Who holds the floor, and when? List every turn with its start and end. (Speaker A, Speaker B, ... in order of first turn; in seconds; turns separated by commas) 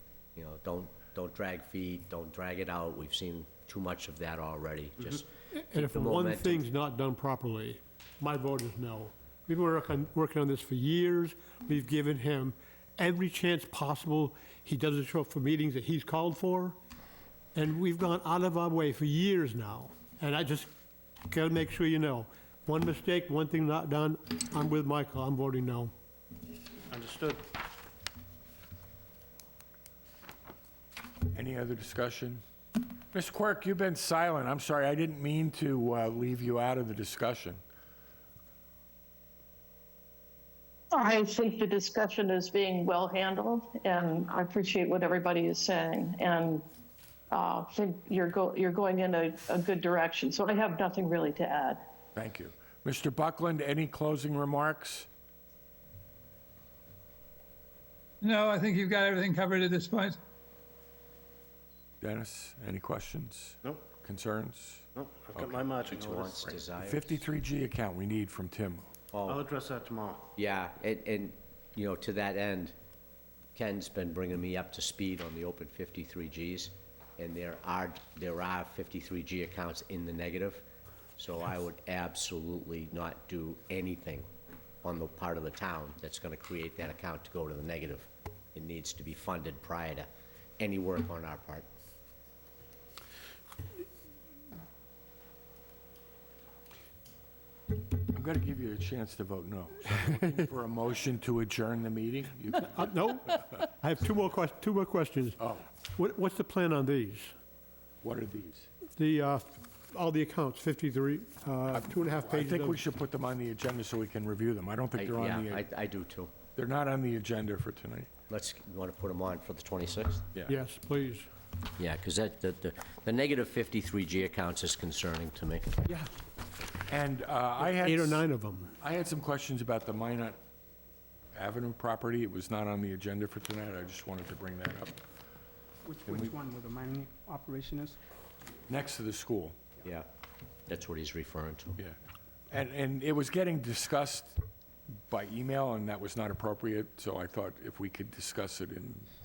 Speaker A: 0.3-6.6, Speaker B: 5.5-16.8, Speaker B: 17.5-20.7, Speaker B: 21.3-25.9, Speaker C: 26.9-27.4, Speaker D: 31.3-32.4, Speaker D: 33.1-37.6, Speaker E: 40.9-46.6, Speaker E: 47.3-51.8, Speaker D: 52.1-55.1, Speaker F: 58.2-60.2, Speaker D: 62.0-65.6, Speaker C: 64.9-66.4, Speaker A: 65.9-67.1, Speaker D: 66.4-68.9, Speaker A: 69.1-69.4, Speaker C: 69.2-70.2, Speaker A: 70.3-72.7, Speaker A: 73.5-80.6, Speaker A: 81.2-84.2, Speaker A: 84.8-90.1, Speaker A: 90.6-91.7, Speaker D: 98.1-102.9, Speaker B: 102.6-107.3, Speaker D: 105.4-105.7, Speaker D: 108.0-108.7, Speaker B: 109.0-112.8, Speaker D: 111.7-115.6, Speaker A: 114.9-116.3, Speaker D: 116.5-118.1, Speaker A: 118.3-120.2, Speaker B: 120.5-121.2, Speaker A: 121.8-125.8, Speaker D: 126.9-128.2, Speaker B: 127.6-128.7, Speaker D: 128.8-130.4, Speaker D: 131.3-135.0, Speaker G: 135.8-138.0, Speaker D: 138.7-139.6, Speaker A: 140.7-141.8, Speaker D: 142.5-144.4, Speaker D: 145.1-149.1